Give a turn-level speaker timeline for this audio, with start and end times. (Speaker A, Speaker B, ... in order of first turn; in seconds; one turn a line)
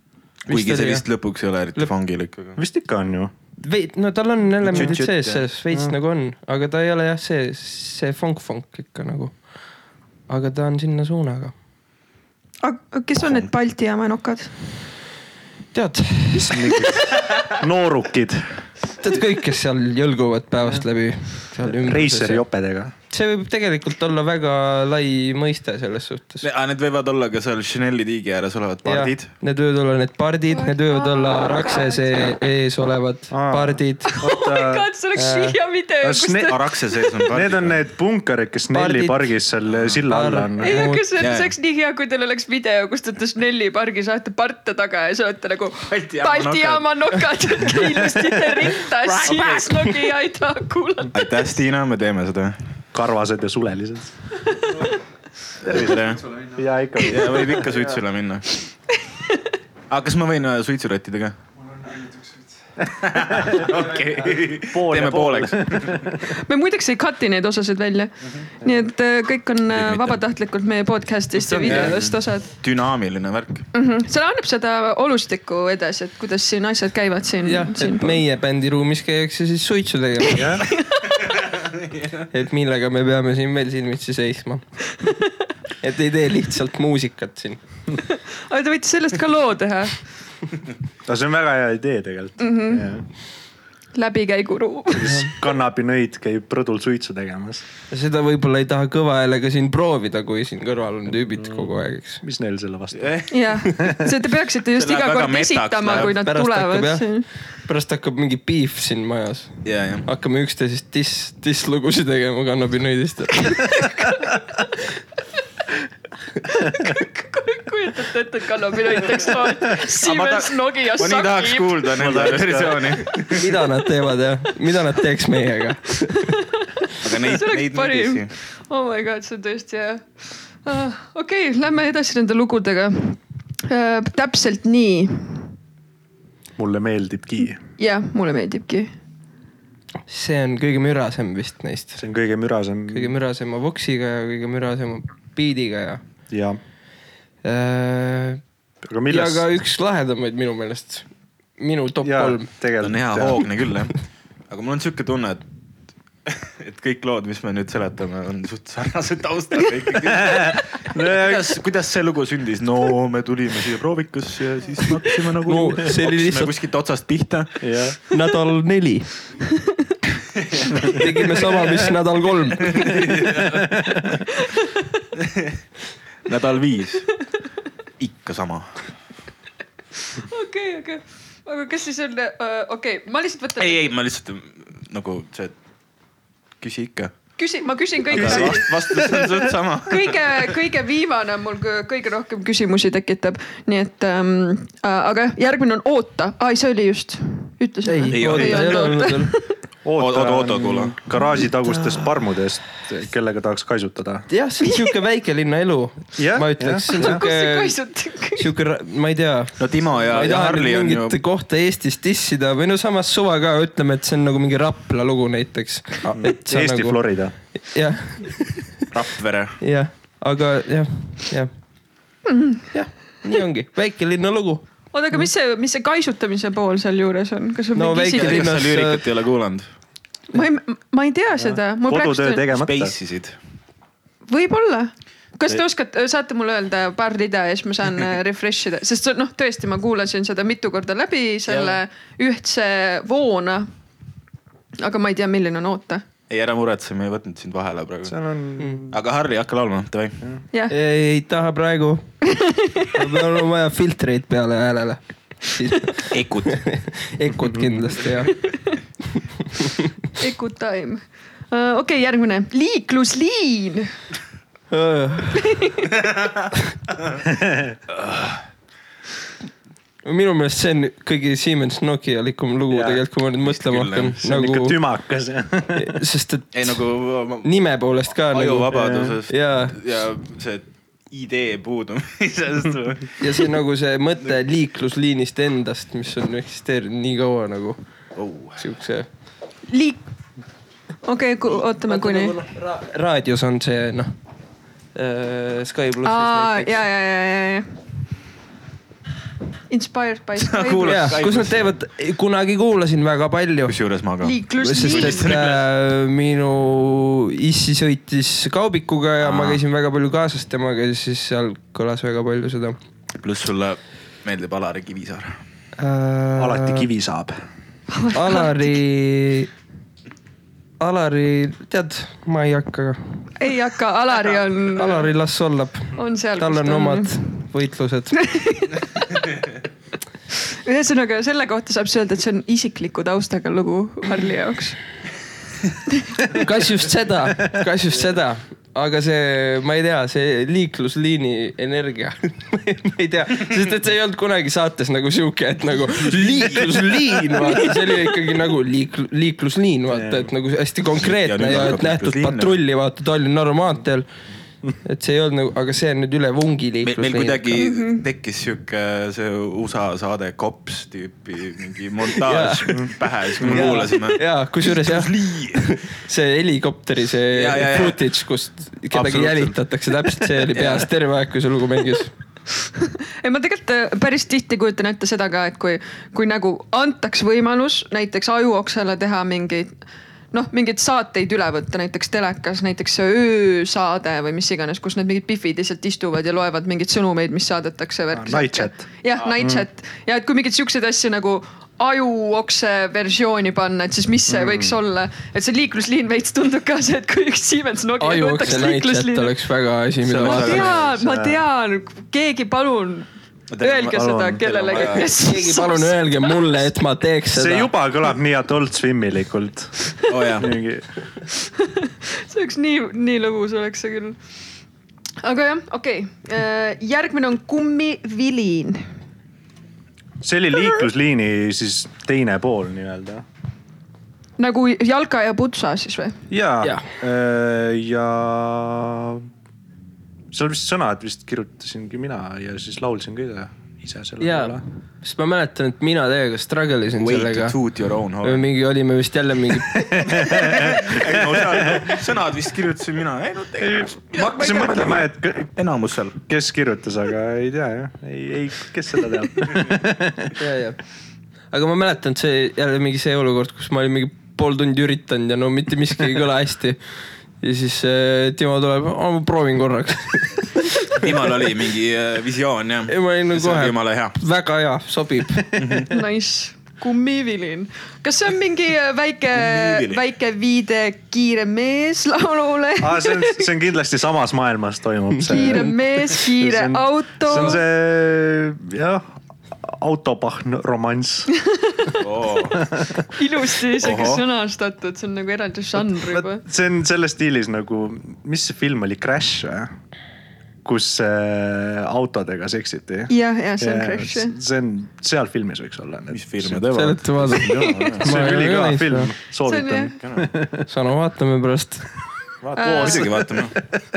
Speaker A: 0.5-1.1
Speaker B: 0.5-2.6
Speaker C: 2.5-3.3
Speaker A: 3.6-9.3
Speaker B: 4.6-5.4
Speaker C: 5.7-6.0
Speaker A: 10.3-11.5
Speaker D: 12.6-14.5
Speaker A: 15.7-16.9
Speaker C: 16.3-18.6
Speaker A: 19.0-22.4
Speaker C: 21.6-22.9
Speaker A: 23.1-26.4
Speaker B: 26.4-29.3
Speaker A: 28.8-34.1
Speaker D: 30.5-32.2
Speaker C: 33.3-34.9
Speaker D: 34.1-37.1
Speaker A: 35.1-35.6
Speaker C: 36.0-36.6
Speaker B: 36.5-37.7
Speaker C: 37.3-40.9
Speaker A: 38.7-39.3
Speaker B: 39.7-40.0
Speaker A: 40.1-41.0
Speaker D: 40.6-51.5
Speaker B: 41.2-41.5
Speaker B: 45.9-46.9
Speaker B: 49.1-49.7
Speaker B: 51.1-52.5
Speaker C: 52.9-54.1
Speaker D: 54.5-54.9
Speaker B: 55.6-56.3
Speaker C: 55.6-57.9
Speaker B: 57.0-58.5
Speaker D: 58.9-59.5
Speaker B: 59.9-61.4
Speaker B: 62.9-66.1
Speaker C: 63.2-63.7
Speaker C: 64.6-66.3
Speaker D: 66.2-72.5
Speaker B: 69.7-70.2
Speaker C: 71.5-72.0
Speaker B: 71.5-73.6
Speaker D: 73.7-78.2
Speaker A: 77.4-80.5
Speaker C: 80.3-80.6
Speaker D: 80.4-81.1
Speaker B: 81.4-82.3
Speaker A: 82.3-84.6
Speaker A: 85.8-87.6
Speaker D: 88.1-90.0
Speaker C: 91.0-93.0
Speaker D: 92.4-92.9
Speaker D: 93.9-95.2
Speaker C: 94.9-97.6
Speaker A: 97.9-102.2
Speaker C: 101.3-103.2
Speaker B: 103.0-103.3
Speaker D: 103.3-107.2
Speaker B: 104.7-106.1
Speaker A: 105.9-107.1
Speaker A: 107.6-113.9
Speaker B: 109.6-110.1
Speaker D: 113.4-114.4
Speaker D: 116.5-122.0
Speaker B: 119.9-123.5
Speaker C: 121.9-122.9
Speaker A: 123.3-126.3
Speaker D: 126.2-135.4
Speaker B: 127.0-128.3
Speaker C: 136.6-137.6
Speaker D: 137.8-138.9
Speaker A: 140.1-142.0
Speaker C: 142.0-143.2
Speaker A: 142.9-146.0
Speaker C: 146.3-146.6
Speaker A: 147.4-148.4
Speaker C: 148.8-149.5
Speaker A: 149.1-151.1
Speaker A: 151.6-152.5
Speaker C: 152.0-153.5
Speaker B: 152.8-153.9
Speaker B: 154.5-155.4
Speaker B: 156.3-167.8
Speaker C: 160.1-161.6
Speaker A: 165.4-166.5
Speaker C: 167.6-168.0
Speaker A: 168.1-169.1
Speaker B: 170.4-171.0
Speaker A: 170.9-172.9
Speaker B: 172.6-174.2
Speaker C: 173.2-174.2
Speaker D: 174.4-174.7
Speaker B: 175.2-175.5
Speaker B: 176.2-177.1
Speaker B: 178.0-178.7
Speaker D: 180.1-183.9
Speaker B: 183.6-185.5
Speaker B: 186.6-187.1
Speaker D: 187.4-199.5
Speaker B: 188.1-190.5
Speaker C: 188.2-188.5
Speaker A: 197.8-199.3
Speaker B: 198.1-198.9
Speaker C: 199.8-204.2
Speaker B: 200.0-201.0
Speaker A: 204.3-207.7
Speaker C: 206.2-207.2
Speaker D: 206.9-208.5
Speaker A: 208.4-217.0
Speaker B: 209.6-211.2
Speaker C: 216.1-217.3
Speaker A: 217.6-218.6
Speaker B: 218.9-219.6
Speaker A: 219.6-221.5
Speaker D: 222.2-222.6
Speaker A: 222.7-224.6
Speaker D: 224.9-228.6
Speaker A: 227.7-229.0
Speaker B: 228.1-229.7
Speaker D: 230.3-232.5
Speaker C: 231.3-232.9
Speaker B: 232.5-233.3
Speaker D: 234.3-243.7
Speaker B: 241.5-241.8
Speaker D: 244.8-246.0
Speaker B: 246.3-248.1
Speaker C: 248.1-249.0
Speaker B: 248.9-250.2
Speaker A: 250.7-252.1
Speaker D: 252.3-252.9
Speaker A: 252.9-258.3
Speaker B: 256.1-256.6
Speaker C: 257.4-257.9
Speaker D: 258.5-258.8
Speaker A: 259.6-259.9
Speaker D: 260.2-263.9
Speaker A: 264.7-265.6
Speaker D: 265.4-265.9
Speaker B: 266.0-266.4
Speaker C: 267.2-267.8
Speaker B: 267.9-268.4
Speaker A: 270.0-274.8
Speaker C: 272.7-273.0
Speaker B: 273.4-274.1
Speaker C: 274.2-275.9
Speaker A: 275.7-276.8
Speaker B: 276.5-277.5
Speaker A: 277.4-279.8
Speaker B: 278.3-283.2
Speaker C: 278.7-279.1
Speaker A: 283.2-287.8
Speaker B: 288.1-288.6
Speaker A: 288.6-289.1
Speaker D: 289.7-290.0
Speaker D: 291.0-292.3
Speaker A: 291.8-294.1
Speaker A: 294.9-296.8
Speaker D: 296.0-297.7
Speaker D: 299.7-301.2
Speaker B: 300.4-301.7
Speaker A: 300.8-303.8
Speaker B: 303.6-305.6
Speaker D: 304.2-305.3
Speaker A: 304.6-312.8
Speaker B: 309.2-309.6
Speaker B: 313.2-315.4
Speaker A: 315.8-316.9
Speaker C: 316.4-317.4
Speaker D: 317.9-318.7
Speaker A: 318.1-319.5
Speaker A: 320.8-323.2
Speaker D: 323.4-325.1
Speaker A: 324.7-328.3
Speaker D: 325.9-327.2
Speaker D: 328.1-329.2
Speaker D: 330.3-334.8
Speaker D: 335.9-336.4
Speaker A: 336.3-354.1
Speaker B: 346.1-346.8
Speaker C: 349.9-350.3
Speaker B: 350.9-352.6
Speaker A: 354.8-357.6
Speaker B: 356.8-365.8
Speaker D: 357.6-358.0
Speaker A: 362.1-372.1
Speaker C: 363.4-363.8
Speaker B: 367.3-368.0
Speaker B: 368.9-369.6
Speaker B: 370.4-370.9
Speaker D: 372.6-379.7
Speaker D: 380.3-399.3
Speaker C: 388.1-389.6
Speaker C: 394.3-394.8
Speaker A: 398.0-400.7
Speaker B: 400.1-400.9
Speaker D: 400.2-403.1
Speaker C: 400.8-401.4
Speaker B: 403.5-405.1
Speaker D: 403.6-406.4
Speaker C: 403.9-404.4
Speaker A: 404.8-407.7
Speaker C: 407.3-409.7
Speaker B: 410.1-410.5
Speaker C: 410.3-410.9
Speaker D: 411.4-414.2
Speaker D: 415.2-418.9
Speaker C: 420.2-423.2
Speaker D: 424.4-426.2
Speaker C: 426.3-429.3
Speaker C: 430.3-434.6
Speaker A: 434.2-437.6
Speaker B: 437.0-438.4
Speaker A: 438.2-440.0
Speaker C: 439.7-442.0
Speaker B: 440.1-446.2
Speaker C: 443.6-445.5
Speaker C: 446.3-450.3
Speaker A: 450.4-450.8
Speaker A: 451.5-456.8
Speaker A: 457.4-461.0
Speaker B: 460.9-464.1
Speaker A: 462.9-465.6
Speaker B: 465.5-465.9
Speaker D: 465.9-473.5
Speaker B: 469.3-470.0
Speaker C: 472.8-479.0
Speaker D: 475.3-477.6
Speaker A: 475.3-475.7
Speaker C: 479.6-481.3
Speaker D: 481.3-482.1
Speaker B: 482.0-482.6
Speaker C: 482.5-482.9
Speaker D: 483.1-486.4
Speaker B: 483.8-484.2
Speaker C: 485.9-489.7
Speaker C: 490.6-496.6
Speaker D: 493.1-494.3
Speaker B: 496.1-498.1
Speaker A: 496.7-499.1
Speaker D: 497.4-498.0
Speaker C: 498.0-500.6
Speaker D: 499.4-499.9
Speaker B: 500.0-500.3
Speaker A: 500.7-501.8
Speaker B: 502.4-503.5
Speaker C: 502.5-503.8
Speaker D: 502.6-503.2